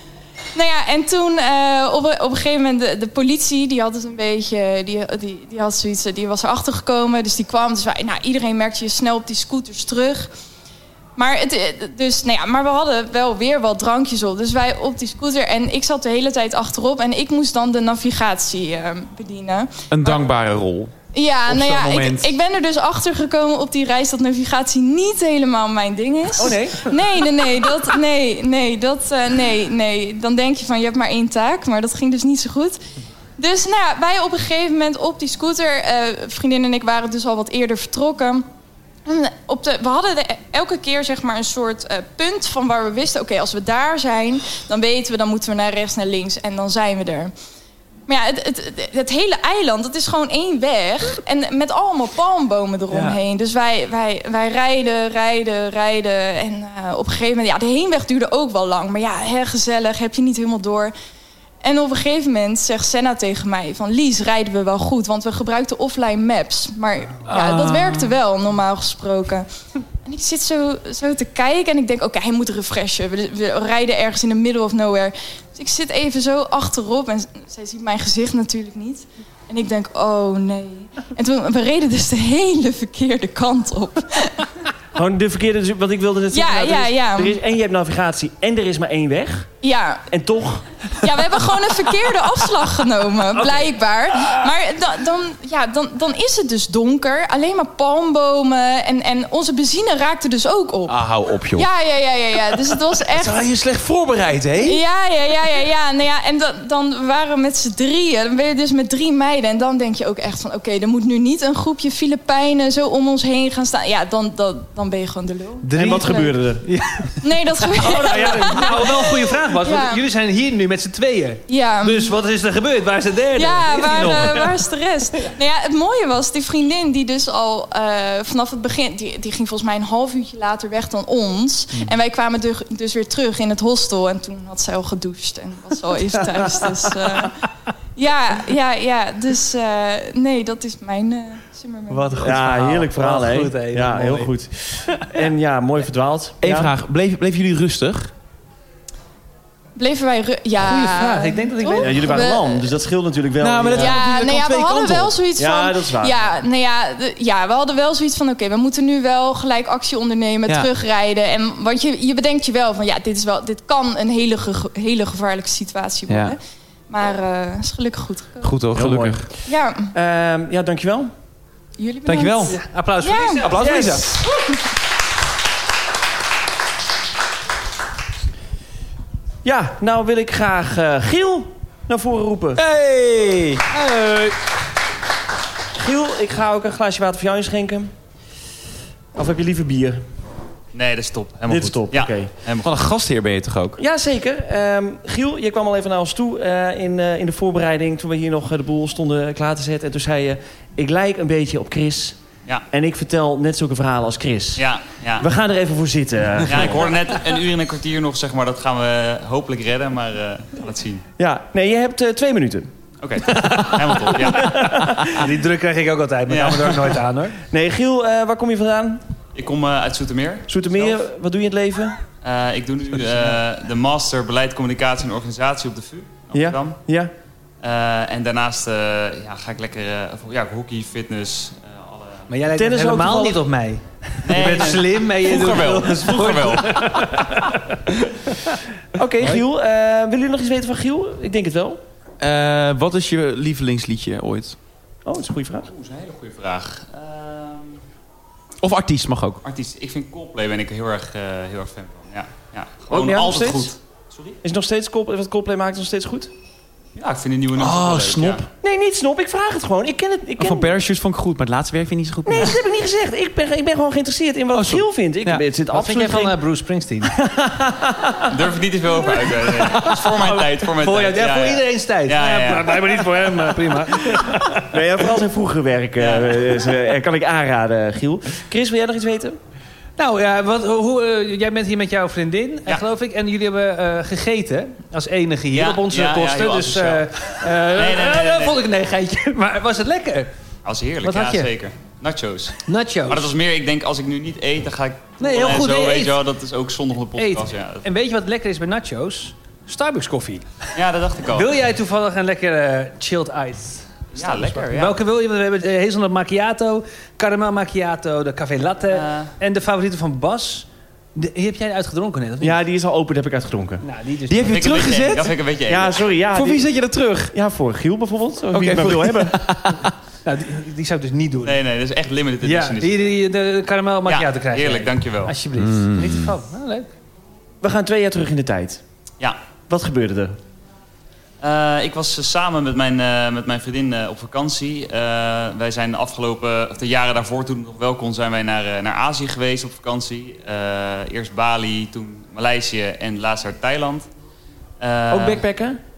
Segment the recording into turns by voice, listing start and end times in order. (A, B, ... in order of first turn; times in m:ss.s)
0:00.5-0:10.3 A
0:11.2-0:20.1 A
0:19.9-0:20.9 B
0:21.1-0:32.8 A
0:21.5-0:22.4 B
0:26.4-0:27.0 C
0:33.4-0:38.4 A
0:39.0-0:47.3 A
0:48.1-1:00.9 A
0:52.9-0:53.2 D
1:01.6-1:09.5 A
1:07.3-1:08.2 B
1:10.0-1:24.5 A
1:25.0-1:29.5 C
1:26.3-1:27.4 A
1:29.6-1:30.1 A
1:30.1-1:31.2 C
1:31.0-1:41.0 A
1:33.4-1:33.7 D
1:40.9-1:41.7 B
1:41.5-1:43.4 A
1:43.0-1:44.8 B
1:44.6-1:56.3 A
1:55.6-1:57.2 D
1:55.7-1:56.7 C
1:57.2-2:00.0 A
1:57.7-2:04.6 D
1:57.8-1:59.3 C
2:01.5-2:02.2 A
2:03.4-2:17.4 A
2:16.3-2:17.3 D
2:18.0-2:22.3 A
2:21.9-2:24.3 D
2:22.2-2:26.7 C
2:26.4-2:28.1 B
2:29.8-2:32.7 A
2:30.6-2:32.2 D
2:31.8-2:34.0 C
2:33.4-2:35.1 B
2:33.8-2:48.5 A
2:35.4-2:36.2 C
2:46.1-2:46.4 B
2:48.4-2:49.3 B
2:48.8-2:49.3 C
2:49.5-2:49.9 A
2:49.9-2:51.1 C
2:51.8-2:53.5 A
2:52.0-2:52.6 B
2:52.5-2:53.9 D
2:53.4-2:54.1 B
2:53.6-2:54.1 C
2:59.4-3:02.6 C
3:02.6-3:03.7 B
3:03.7-3:04.4 D
3:05.8-3:07.9 C
3:09.1-3:10.0 C
3:10.7-3:12.8 E
3:11.5-3:12.3 C
3:12.6-3:13.8 B
3:13.8-3:22.2 C
3:22.7-3:24.6 C
3:24.6-3:25.3 E
3:25.2-3:27.0 C
3:26.5-3:31.0 E
3:31.2-3:32.7 C
3:33.0-3:34.6 E
3:33.2-3:37.4 D
3:34.3-3:35.3 C
3:36.3-3:37.0 E
3:37.5-3:39.0 C
3:39.4-3:41.0 E
3:40.5-3:42.0 C
3:42.2-3:46.8 E
3:46.3-3:47.1 C
3:47.6-3:52.3 E
3:52.3-3:57.6 D
3:52.5-3:53.4 C
3:54.2-3:56.9 E
3:59.0-4:01.8 C
4:02.2-4:04.6 B
4:05.0-4:05.7 C
4:05.7-4:07.8 E
4:08.6-4:09.4 B
4:09.4-4:14.4 E
4:12.9-4:13.7 C
4:14.4-4:16.3 C
4:17.0-4:18.4 E
4:17.5-4:18.5 B
4:18.6-4:20.8 C
4:20.4-4:22.6 B
4:22.3-4:26.4 C
4:24.5-4:25.4 B
4:25.7-4:27.1 D
4:27.0-4:28.4 C
4:28.3-4:33.0 E
4:29.4-4:34.7 D
4:34.7-4:39.4 C
4:36.0-4:36.5 E
4:40.0-4:50.3 D
4:45.5-4:47.0 E
4:47.6-4:48.6 E
4:50.6-4:57.8 E
4:51.0-4:51.5 D
4:52.6-4:53.3 D
4:55.2-4:56.2 D
4:57.2-5:00.5 D
5:00.8-5:01.6 E
5:01.3-5:12.6 D
5:04.1-5:05.0 E
5:08.9-5:09.3 E
5:12.4-5:13.8 C
5:13.8-5:14.5 D
5:14.3-5:15.3 B
5:14.5-5:16.1 E
5:15.7-5:16.7 C
5:16.3-5:17.3 B
5:17.3-5:19.5 C
5:18.5-5:19.9 B
5:20.2-5:21.6 D
5:21.4-5:23.0 E
5:22.4-5:26.9 D
5:24.0-5:25.3 E
5:25.6-5:26.3 B
5:27.6-5:28.8 C
5:29.7-5:30.4 C
5:31.4-5:44.1 E
5:44.8-5:45.4 E
5:45.1-5:45.8 C